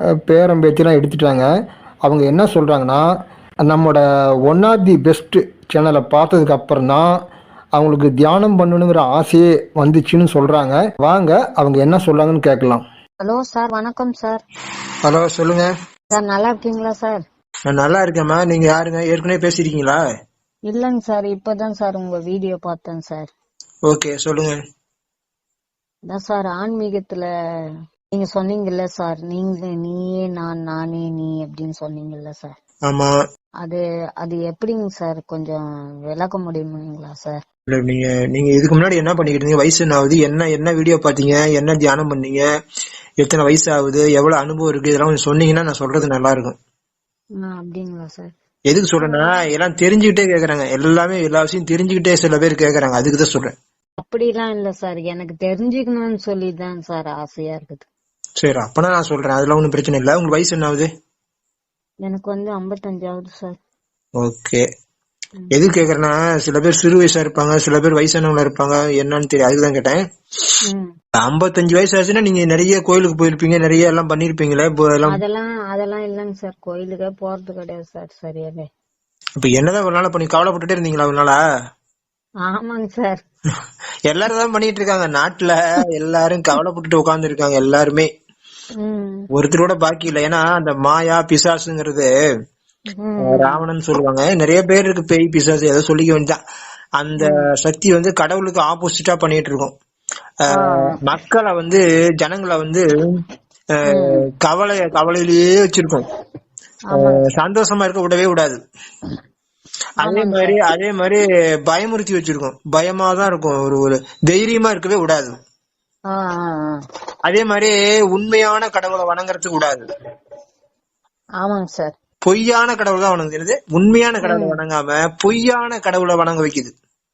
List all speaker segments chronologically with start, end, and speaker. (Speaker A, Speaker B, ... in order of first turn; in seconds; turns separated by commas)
Speaker A: 0.3-1.5, Speaker A: 2.0-3.0, Speaker A: 3.7-7.1, Speaker A: 7.8-12.8, Speaker B: 13.2-14.4, Speaker C: 15.0-15.7, Speaker B: 16.1-17.2, Speaker C: 17.7-20.0, Speaker B: 20.7-23.3, Speaker C: 23.9-24.6, Speaker B: 26.1-27.3, Speaker B: 28.1-32.5, Speaker C: 32.9-33.2, Speaker B: 33.6-37.4, Speaker C: 37.7-42.4, Speaker C: 43.2-46.6, Speaker B: 47.4-48.3, Speaker C: 48.7-53.5, Speaker B: 49.0-49.3, Speaker B: 54.0-57.9, Speaker C: 58.4-60.9, Speaker B: 62.0-63.6, Speaker C: 64.2-64.6, Speaker C: 65.5-70.0, Speaker B: 70.7-70.9, Speaker C: 71.2-75.2, Speaker B: 75.1-78.7, Speaker C: 79.4-81.4, Speaker B: 82.5-83.2, Speaker C: 84.1-88.1, Speaker B: 88.8-89.3, Speaker C: 89.3-92.1, Speaker B: 93.0-93.6, Speaker C: 93.2-96.4, Speaker C: 97.0-99.7, Speaker C: 100.4-102.9, Speaker B: 100.5-100.9, Speaker C: 103.8-106.0, Speaker B: 103.9-104.2, Speaker B: 106.9-107.2, Speaker C: 107.0-108.6, Speaker B: 110.0-110.5, Speaker C: 110.0-115.3, Speaker B: 116.1-116.8, Speaker C: 117.3-119.9, Speaker B: 121.4-122.0, Speaker C: 122.2-126.7, Speaker B: 124.3-124.6